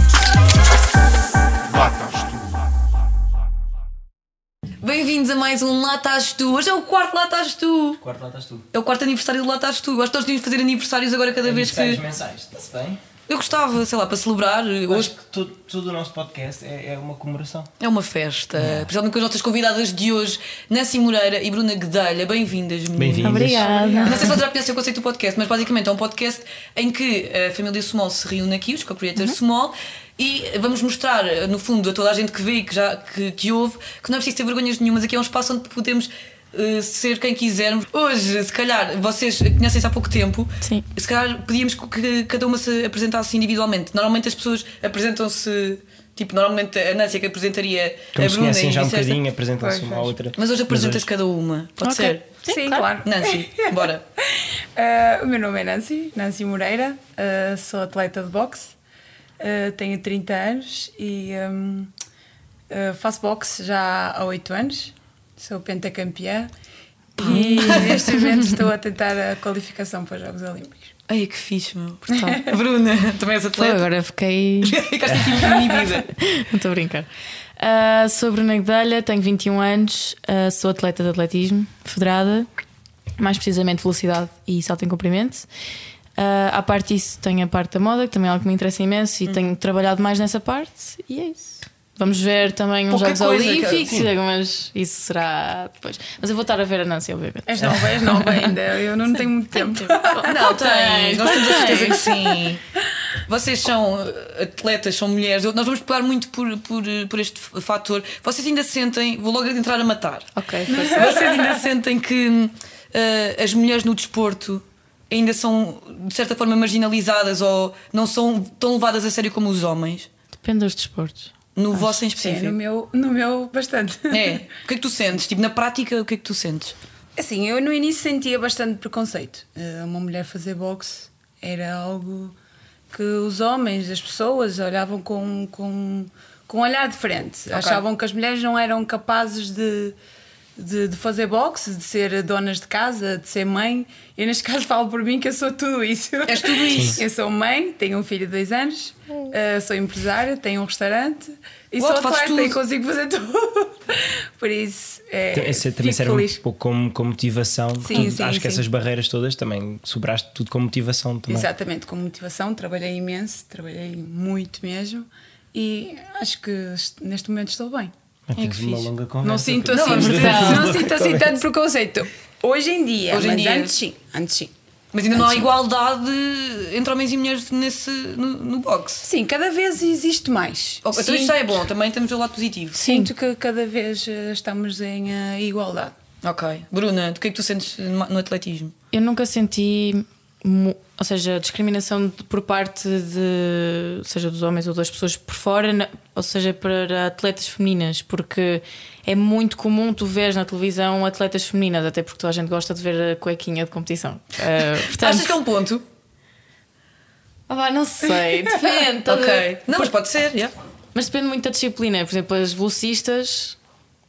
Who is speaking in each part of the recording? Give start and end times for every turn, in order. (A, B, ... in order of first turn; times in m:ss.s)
0:04.8-0:08.0 A
0:08.0-0:08.7 B
0:08.7-0:12.0 A
0:11.4-0:13.0 B
0:13.3-0:15.1 A
0:14.9-0:17.7 B
0:17.8-0:23.5 A
0:18.6-0:18.9 B
0:23.0-0:23.7 B
0:23.2-0:24.4 C
0:23.6-0:24.4 D
0:24.0-0:49.2 A
0:48.2-0:51.1 B
0:49.6-0:50.1 D
0:50.4-0:52.3 A
0:51.8-0:52.9 C
0:52.5-0:58.7 D
0:53.0-0:54.0 A
0:59.4-1:01.9 D
1:02.7-1:06.5 D
1:07.2-1:08.3 A
1:07.2-1:10.9 D
1:07.2-1:08.5 C
1:11.1-1:13.8 A
1:12.1-1:12.6 D
1:13.6-1:14.8 C
1:14.6-1:16.1 A
1:15.1-1:15.4 B
1:16.0-1:22.5 C
1:23.2-1:25.5 C
1:26.2-1:38.6 C
1:32.9-1:33.9 A
1:33.8-1:34.1 B
1:37.5-1:40.3 D
1:39.5-1:42.1 C
1:40.2-1:42.6 A
1:41.3-1:42.4 D
1:43.3-2:00.1 A
1:50.4-1:51.2 C
1:50.7-1:51.3 D
2:00.4-2:01.8 C
2:01.6-2:02.6 A
2:02.1-2:04.4 D
2:04.1-2:06.8 A
2:07.2-2:12.4 D
2:12.9-2:20.0 D
2:17.5-2:17.8 A
2:20.6-2:36.3 D
2:26.3-2:27.0 A
2:26.7-2:27.0 B
2:31.8-2:32.6 A
2:35.3-2:41.5 B
2:37.8-2:38.6 D
2:41.3-2:47.9 D
2:48.3-2:51.4 B
2:48.4-2:48.9 A
2:49.2-2:54.5 D
2:49.7-2:50.7 A
2:50.0-2:50.7 C
2:53.1-2:53.7 A
2:54.9-2:59.1 A
2:55.1-2:55.5 D
2:59.0-3:01.6 D
3:00.8-3:02.8 A
3:02.8-3:03.1 C
3:02.8-3:05.9 D
3:06.2-3:08.7 A
3:08.9-3:25.4 C
3:24.8-3:25.8 A
3:27.5-3:29.9 C
3:29.1-3:30.5 A
3:31.0-3:33.6 C